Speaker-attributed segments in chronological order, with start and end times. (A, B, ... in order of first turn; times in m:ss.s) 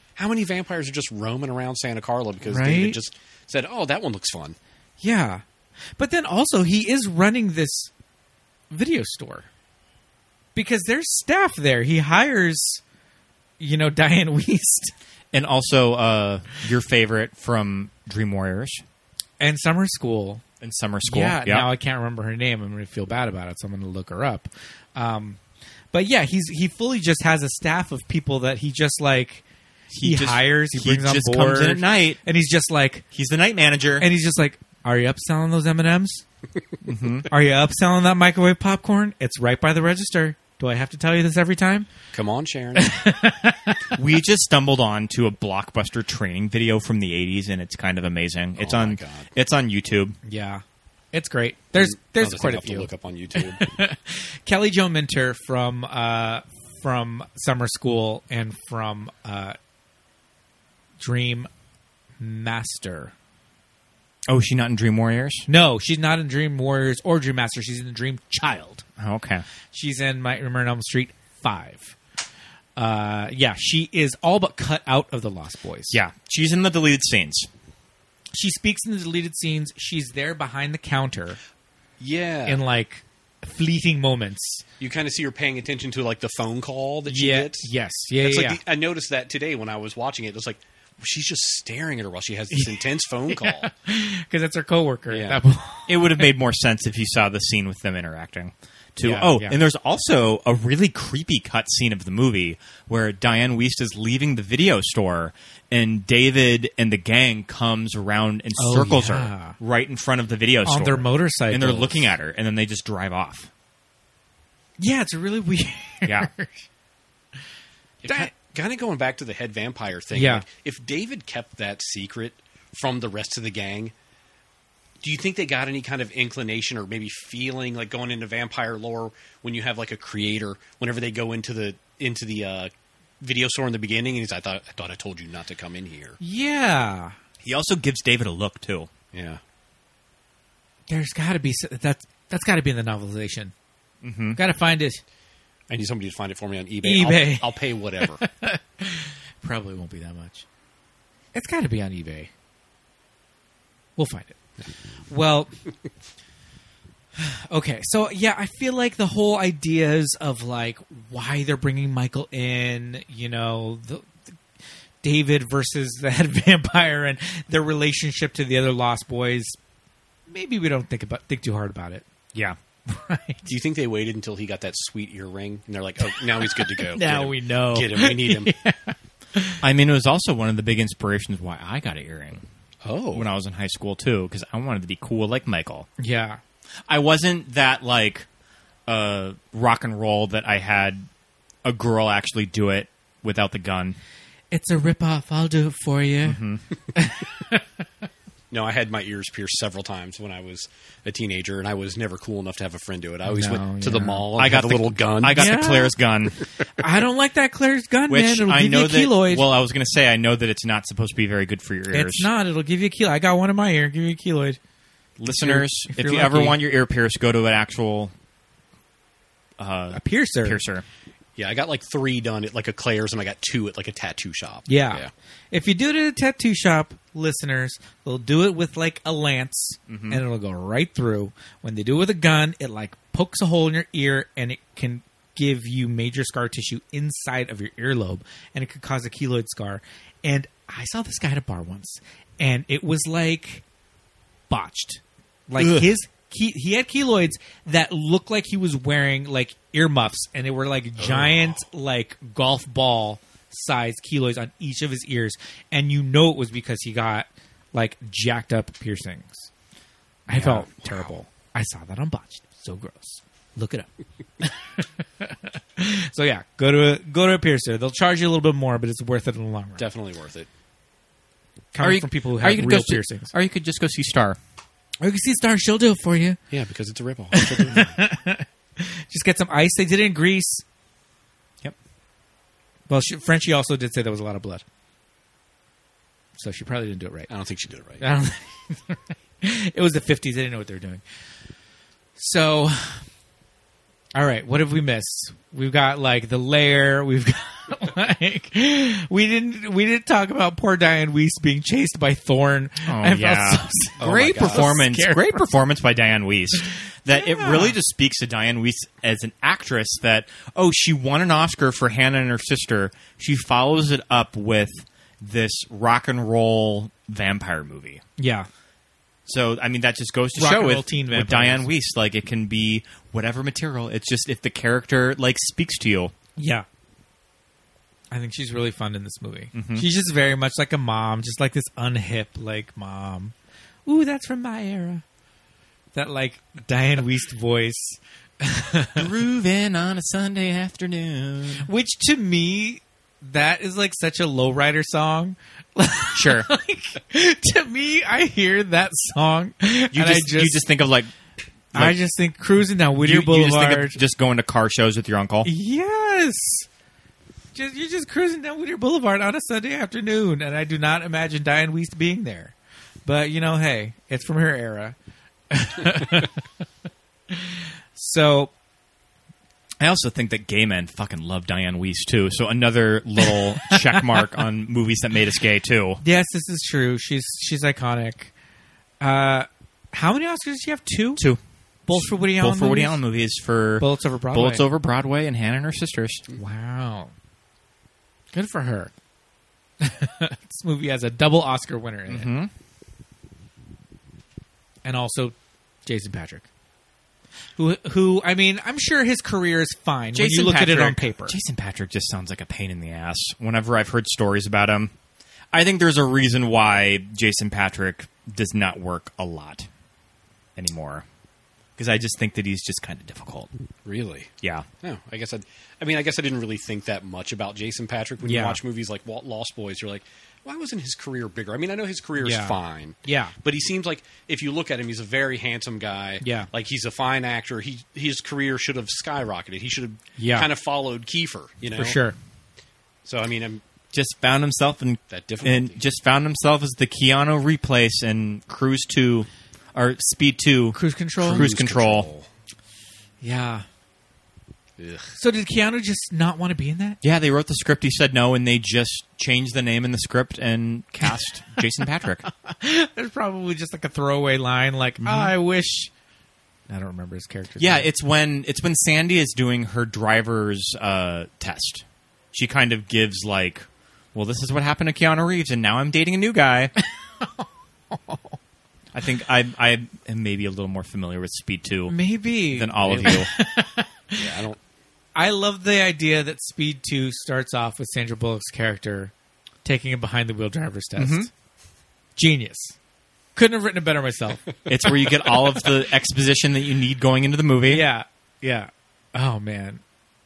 0:00.2-0:04.6 A
0:02.4-0:03.0 B
0:05.0-0:05.4 B
0:06.0-0:07.9 B
0:08.7-0:09.5 B
0:10.5-0:12.8 B
0:13.6-0:14.9 B
0:15.3-0:18.8 C
0:19.4-0:20.4 B
0:20.6-0:21.7 C
0:21.0-0:25.4 B
0:25.9-0:29.4 B
0:29.9-0:32.2 C
0:30.0-0:33.0 B
0:33.1-0:34.1 C
0:34.0-0:36.2 B
0:36.8-0:37.3 C
0:37.3-0:41.9 B
0:42.1-0:42.9 A
0:42.8-0:43.8 B
0:43.9-0:50.2 C
0:48.6-0:49.3 A
0:50.2-0:50.6 B
0:51.1-0:59.6 B
0:51.7-0:53.7 A
1:01.0-1:01.5 B
1:02.2-1:03.1 B
1:04.3-1:05.5 C
1:05.5-1:08.8 B
1:09.0-1:09.4 C
1:09.7-1:12.0 B
1:12.8-1:16.0 B
1:15.9-1:17.5 C
1:18.3-1:21.4 B
1:22.0-1:22.6 A
1:22.5-1:24.6 B
1:24.8-1:33.7 A
1:27.1-1:28.6 B
1:32.5-1:36.3 B
1:35.1-1:35.4 A
1:35.9-1:53.5 C
1:39.0-1:39.6 B
1:48.6-1:49.6 B
1:50.6-1:52.0 B
1:54.8-1:56.7 B
1:56.0-1:56.3 C
1:58.0-2:03.9 A
1:58.0-1:58.3 B
2:00.1-2:00.4 B
2:05.0-2:16.2 A
2:16.2-2:17.2 B
2:17.4-2:18.9 C
2:19.1-2:19.4 A
2:20.9-2:23.5 B
2:24.0-2:24.4 C
2:24.4-2:25.0 B
2:25.7-2:28.2 A
2:26.8-2:30.4 B
2:31.3-2:32.3 B
2:34.0-2:34.4 B
2:35.1-2:35.5 B
2:37.2-2:44.4 B
2:45.0-2:49.6 B
2:50.3-2:52.0 B
2:52.9-2:53.5 B
2:53.5-2:58.6 A
2:56.1-2:59.6 B
2:59.6-3:02.4 C
3:02.8-3:03.3 A
3:03.1-3:05.9 C
3:06.0-3:06.4 B
3:06.9-3:08.3 C
3:08.9-3:11.1 C
3:11.6-3:14.0 C
3:14.5-3:16.4 B
3:16.2-3:16.6 C
3:16.9-3:17.6 B
3:18.5-3:25.5 A
3:23.2-3:24.3 B
3:24.4-3:26.5 C
3:25.4-3:25.9 B
3:26.8-3:29.5 B
3:28.1-3:32.3 C
3:31.9-3:34.6 B
3:35.2-3:38.1 C
3:35.3-3:36.6 B
3:39.6-3:40.8 C
3:39.9-3:40.6 B
3:41.4-3:45.1 A
3:44.7-4:03.6 B
3:49.9-3:50.2 C
4:04.5-4:19.5 B
4:05.6-4:05.9 C
4:11.0-4:11.6 A
4:20.3-4:23.9 B
4:20.3-4:21.1 A
4:24.4-4:29.8 B
4:29.8-4:30.5 A
4:31.7-4:33.3 B
4:31.8-4:34.4 C
4:35.0-4:36.4 B
4:36.5-4:38.0 A
4:37.3-4:40.6 B
4:42.9-4:44.6 B
4:46.4-4:47.3 B
4:47.3-4:48.0 A
4:48.0-4:51.0 B
4:52.2-4:53.0 B
4:54.1-5:05.4 B
5:02.8-5:18.0 C
5:04.0-5:04.7 A
5:07.1-5:07.8 B
5:18.2-5:18.5 B
5:19.2-5:26.1 C
5:20.3-5:21.7 B
5:26.4-5:26.6 B
5:28.1-5:33.3 B
5:29.5-5:29.8 C
5:33.8-5:35.0 B
5:35.9-5:39.1 B
5:39.0-5:41.7 C
5:41.6-5:50.6 B
5:46.1-5:46.5 C
5:49.9-5:51.1 C
5:51.7-5:52.0 C
5:51.7-5:54.0 B
5:52.9-5:55.5 C
5:55.4-5:56.7 B
5:57.5-6:02.5 B
6:03.0-6:05.0 B
6:05.5-6:06.4 B
6:07.3-6:08.5 B
6:09.8-6:16.0 C
6:13.3-6:14.2 B
6:16.0-6:18.3 B
6:19.0-6:21.2 B
6:21.2-6:26.2 C
6:21.8-6:23.0 B
6:23.8-6:24.7 B
6:26.3-6:27.1 B
6:28.3-6:28.9 B
6:29.8-6:32.3 B
6:32.1-6:32.5 C
6:34.8-6:35.3 B
6:35.8-6:36.5 B
6:37.6-6:41.4 B
6:40.1-6:44.9 C
6:45.5-6:49.7 C
6:50.6-6:51.0 C
6:51.8-6:53.5 C
6:53.8-6:54.3 A
6:54.8-7:12.0 A
6:58.2-6:58.6 B
7:02.2-7:03.3 B
7:06.2-7:06.5 B
7:10.2-7:10.5 B
7:11.8-7:12.2 B
7:13.0-7:13.6 A
7:13.9-7:22.1 C
7:15.1-7:15.8 A
7:20.7-7:21.4 B
7:21.2-7:22.3 A
7:23.2-7:23.6 B
7:24.8-7:25.1 A
7:25.2-7:27.0 B
7:27.0-7:32.2 C
7:32.2-7:35.9 B
7:35.0-7:35.3 C
7:36.7-7:37.9 B
7:37.6-7:46.7 C
7:46.8-7:48.3 B
7:48.9-7:53.3 C
7:51.9-7:54.2 B
7:52.9-7:53.2 A
7:54.2-7:54.6 A
7:55.1-7:59.1 B
7:59.6-8:01.3 B
8:01.0-8:01.3 C
8:02.2-8:02.8 B
8:03.3-8:04.4 B
8:04.7-8:07.8 C
8:07.7-8:09.8 B